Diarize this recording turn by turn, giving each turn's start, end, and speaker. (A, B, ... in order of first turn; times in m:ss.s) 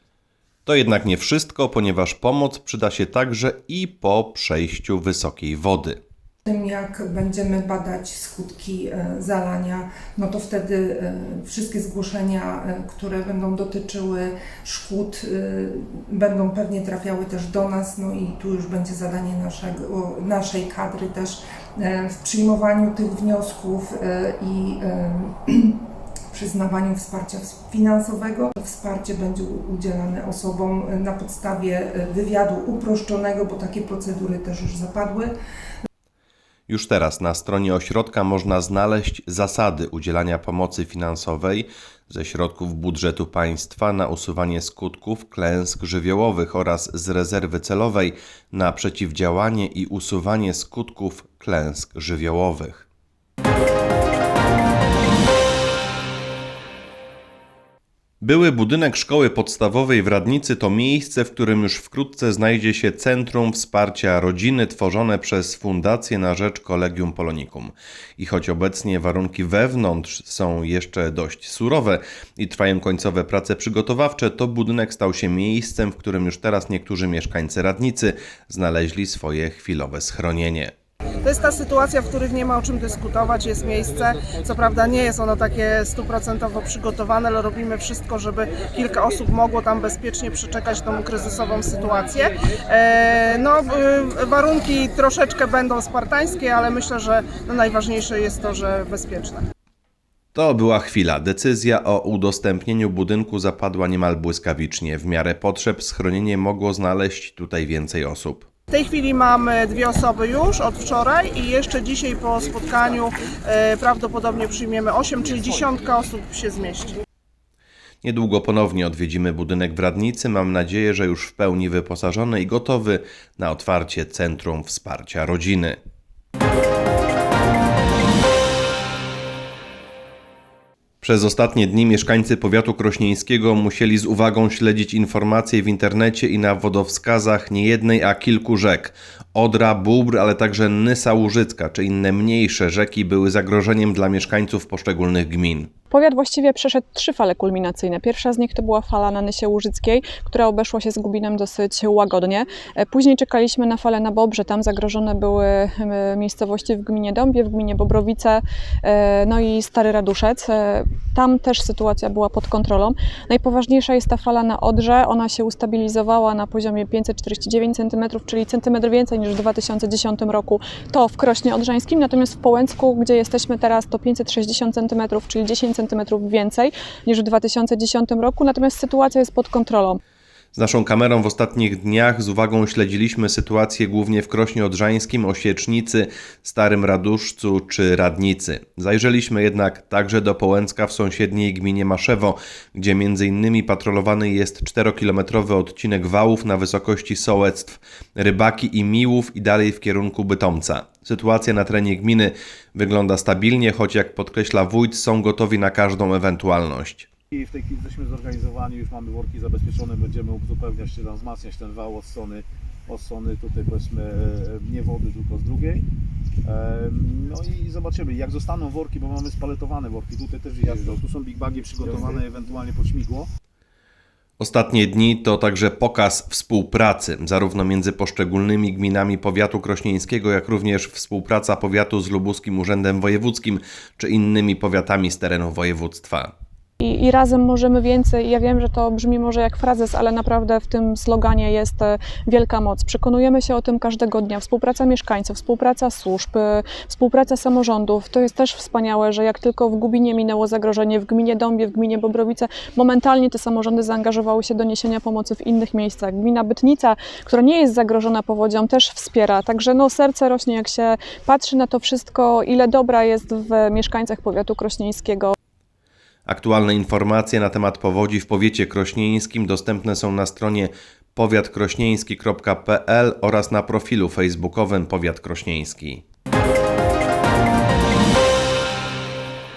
0:00.6-0:06.0 A
0:06.4-0:25.8 B
0:26.3-0:35.3 B
0:36.7-0:52.8 A
0:58.2-1:20.7 A
1:21.2-1:39.4 C
1:40.3-1:48.5 A
1:48.7-1:57.0 C
1:58.0-2:05.8 A
2:11.0-2:25.7 A
2:25.9-3:00.0 D
3:00.5-3:27.1 A
3:27.3-3:35.8 E
3:36.4-3:43.3 E
3:44.4-3:56.3 A
3:56.8-4:25.3 D
4:26.2-4:36.0 A